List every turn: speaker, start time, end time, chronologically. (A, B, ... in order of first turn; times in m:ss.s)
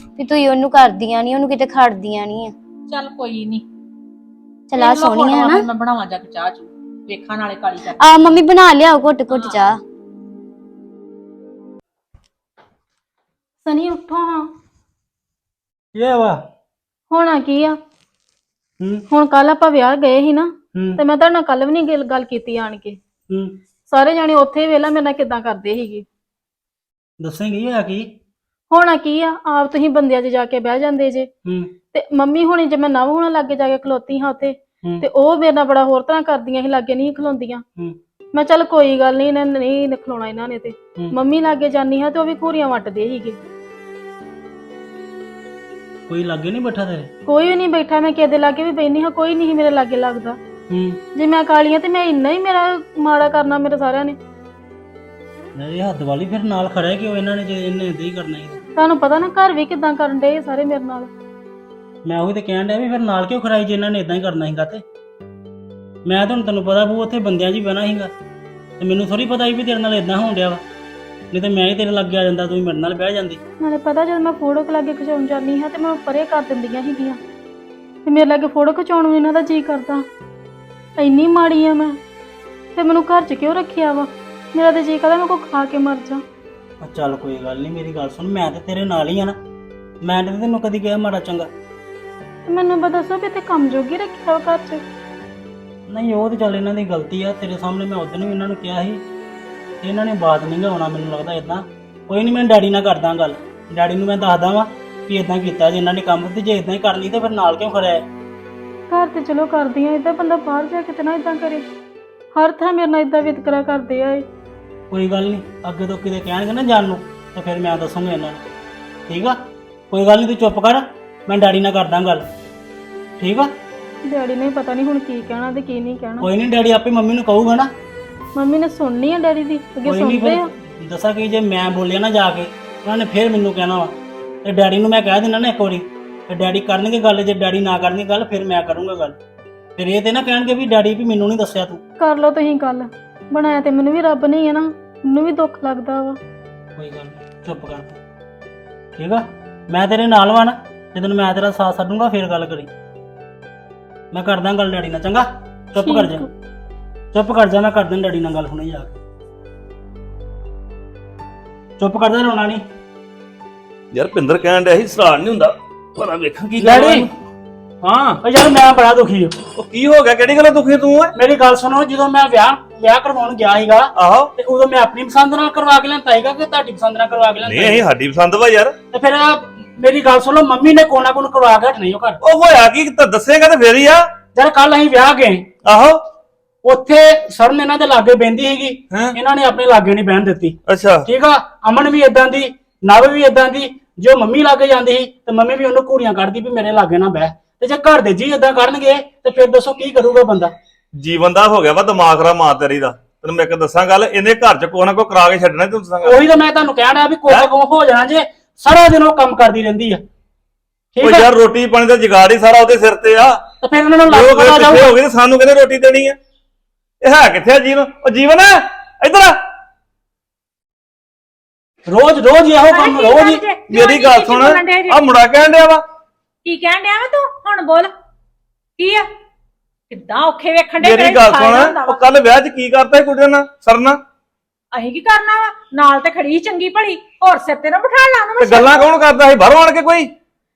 0:00.2-0:02.5 A
0:02.9-0:03.6 B
0:04.7-0:08.4 B
0:04.8-0:05.6 A
0:08.1-0:09.6 A
0:09.3-0:09.6 B
0:13.6-0:14.5 C
0:15.9-0:16.4 D
0:17.1-0:17.8 C
0:19.1-0:23.0 C
0:23.3-0:23.6 D
0:23.9-0:26.0 C
0:27.2-0:28.1 D
0:28.7-0:31.3 C
0:31.9-0:37.6 C
0:38.3-0:43.4 C
0:46.1-0:47.1 D
0:47.2-0:50.4 C
0:50.7-0:51.0 D
0:51.1-0:54.2 C
0:55.6-0:58.6 D
0:58.8-1:01.1 C
1:02.0-1:04.8 D
1:06.0-1:08.1 D
1:08.8-1:10.6 D
1:11.3-1:13.4 D
1:13.6-1:17.2 C
1:18.0-1:20.0 C
1:21.0-1:22.0 C
1:22.7-1:26.2 C
1:26.8-1:29.3 D
1:30.0-1:31.5 D
1:32.5-1:34.8 C
1:35.9-1:39.0 D
1:39.8-1:48.0 D
1:48.9-1:51.6 C
1:52.3-1:54.2 C
1:54.9-1:58.4 D
1:59.1-1:59.4 D
1:59.9-2:02.2 D
2:03.2-2:03.5 D
2:04.0-2:06.3 C
2:06.2-2:07.7 D
2:08.3-2:10.5 C
2:09.8-2:19.2 D
2:19.8-2:21.8 D
2:22.0-2:26.2 C
2:26.8-2:28.0 D
2:29.0-2:32.7 D
2:34.1-2:36.2 D
2:35.8-2:36.2 C
2:37.1-2:39.0 D
2:41.8-2:42.6 D
2:43.9-2:47.1 E
2:46.5-2:47.1 D
2:47.8-2:48.2 E
2:48.2-2:49.4 D
2:49.6-2:51.1 E
2:51.1-2:57.8 D
2:53.9-2:54.3 E
2:57.4-2:58.7 E
2:58.9-3:02.2 D
3:02.2-3:04.0 E
3:04.3-3:05.4 D
3:05.6-3:06.0 E
3:06.6-3:20.5 D
3:10.7-3:11.1 E
3:21.0-3:26.2 E
3:26.0-3:30.0 D
3:30.9-3:31.3 D
3:31.0-3:33.4 E
3:33.6-3:34.9 D
3:34.1-3:36.2 E
3:37.0-3:39.4 E
3:41.9-3:43.5 D
3:42.7-3:45.0 B
3:43.7-3:45.8 E
3:46.4-3:47.9 B
3:48.8-3:49.0 B
3:49.9-3:52.0 B
3:50.8-3:54.0 E
3:54.7-3:58.9 B
3:58.4-4:00.1 E